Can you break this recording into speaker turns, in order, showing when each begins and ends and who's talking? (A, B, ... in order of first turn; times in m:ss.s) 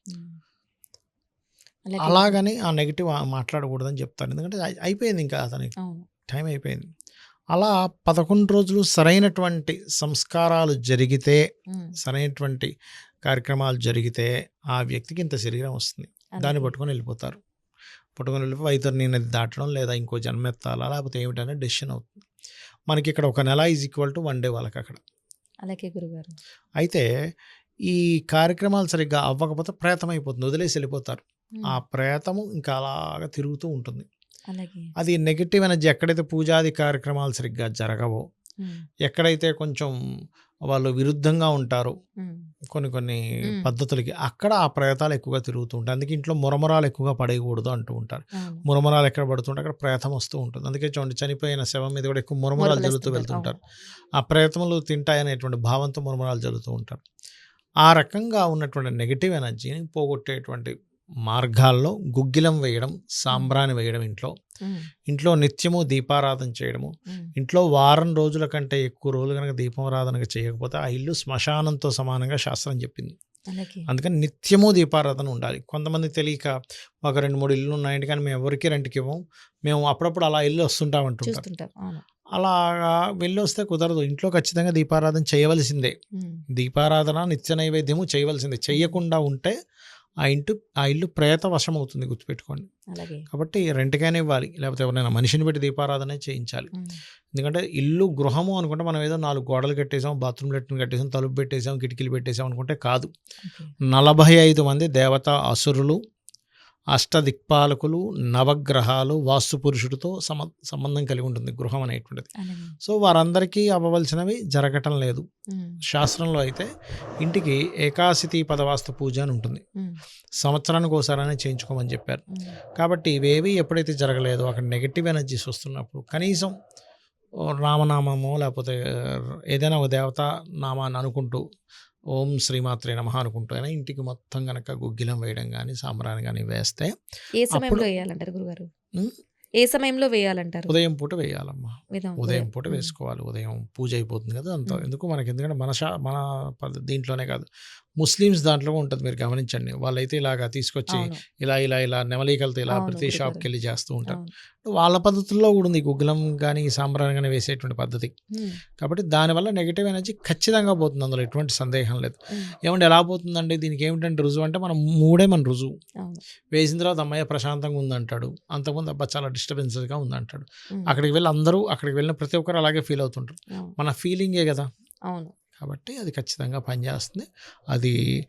0:00.1-0:00.4 A
0:01.9-0:02.4 A
0:02.0-0:05.7 B
0:05.8-0:06.1 A
0:06.3-0:06.9 B
0:07.6-0:11.4 B
0:12.0-0:12.7 B
0:13.2-0:17.4 B
0:16.4-0:16.7 A
0:18.2-0:22.2 B
0:22.9-0:25.0 B
0:25.6-0:26.4 A
0:26.8-0:27.1 B
0:27.9-0:34.1 B
0:34.5-0:34.9 A
0:35.0-0:38.2 B
0:39.1-0:39.9 B
0:40.7-0:41.9 B
0:42.7-0:53.6 B
0:48.4-0:48.6 A
0:52.6-0:53.5 A
0:54.2-0:57.0 B
0:57.8-1:00.7 B
1:01.3-1:04.3 B
1:05.1-1:13.2 B
1:13.5-1:13.9 A
1:13.9-1:21.4 B
1:21.2-1:22.0 A
1:22.4-1:26.0 B
1:26.5-1:29.6 B
1:28.7-1:29.0 A
1:30.2-1:32.7 B
1:32.9-1:33.2 A
1:33.3-1:36.7 B
1:37.3-1:43.1 B
1:43.4-1:43.7 A
1:43.9-1:46.0 B
1:46.9-1:52.3 B
1:52.4-1:52.8 A
1:52.8-1:55.2 B
1:55.5-1:55.8 A
1:55.9-1:56.7 B
1:57.2-1:59.6 B
2:00.4-2:02.2 B
2:02.8-2:06.5 B
2:07.6-2:11.4 B
2:12.2-2:16.9 B
2:17.4-2:18.7 A
2:17.5-2:17.9 B
2:19.6-2:20.7 A
2:20.7-2:27.5 B
2:22.0-2:22.9 A
2:28.0-2:38.1 B
2:30.9-2:31.2 A
2:32.7-2:33.5 A
2:38.3-2:38.6 A
2:38.8-2:45.7 B
2:46.5-2:54.7 B
2:55.6-2:58.0 B